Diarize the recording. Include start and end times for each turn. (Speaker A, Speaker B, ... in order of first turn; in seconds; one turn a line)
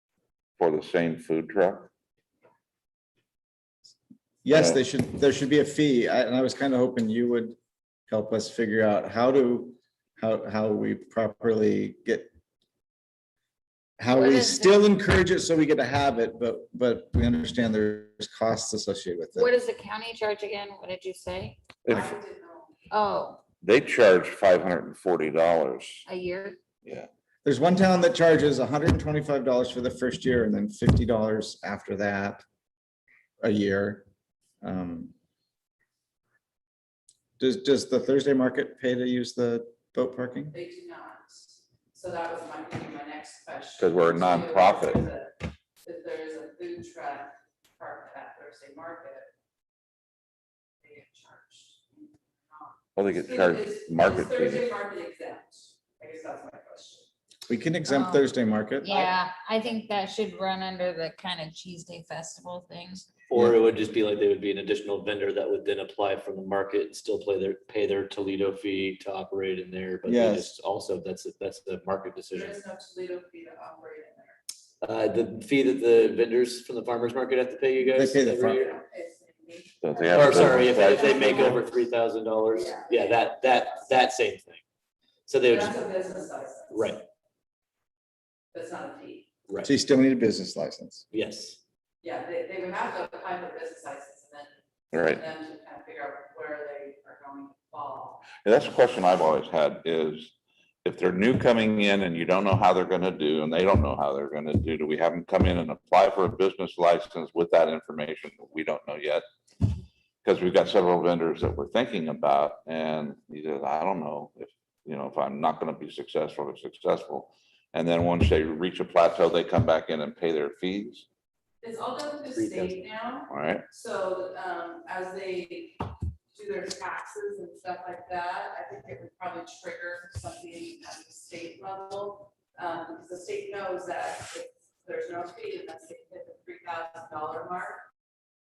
Speaker A: 0.6-1.9
Speaker B: 4.4-7.6
Speaker A: 4.5-4.8
Speaker B: 8.1-12.3
Speaker B: 14.0-19.5
Speaker C: 14.1-14.8
Speaker C: 19.3-21.6
Speaker A: 21.8-22.1
Speaker D: 21.9-22.9
Speaker C: 22.9-23.4
Speaker A: 23.6-26.0
Speaker C: 26.1-26.6
Speaker B: 27.4-32.4
Speaker B: 33.4-34.0
Speaker B: 34.6-35.1
Speaker B: 37.4-40.5
Speaker D: 40.5-49.3
Speaker A: 43.8-45.0
Speaker D: 50.8-57.0
Speaker A: 53.0-54.6
Speaker B: 57.5-59.0
Speaker C: 57.9-58.2
Speaker C: 58.8-63.1
Speaker E: 63.3-72.6
Speaker B: 70.0-70.5
Speaker D: 72.3-74.4
Speaker E: 74.8-78.8
Speaker B: 77.9-78.6
Speaker D: 78.4-81.7
Speaker A: 79.8-81.6
Speaker E: 80.1-84.6
Speaker D: 82.5-84.0
Speaker E: 85.3-85.8
Speaker D: 85.4-87.0
Speaker E: 86.7-87.0
Speaker D: 88.5-89.3
Speaker B: 89.6-91.0
Speaker E: 91.1-91.6
Speaker D: 92.0-98.2
Speaker A: 94.9-95.2
Speaker A: 98.3-100.3
Speaker A: 100.8-109.2
Speaker A: 110.2-121.1
Speaker D: 121.6-137.8
Speaker E: 122.3-122.8
Speaker A: 123.3-123.6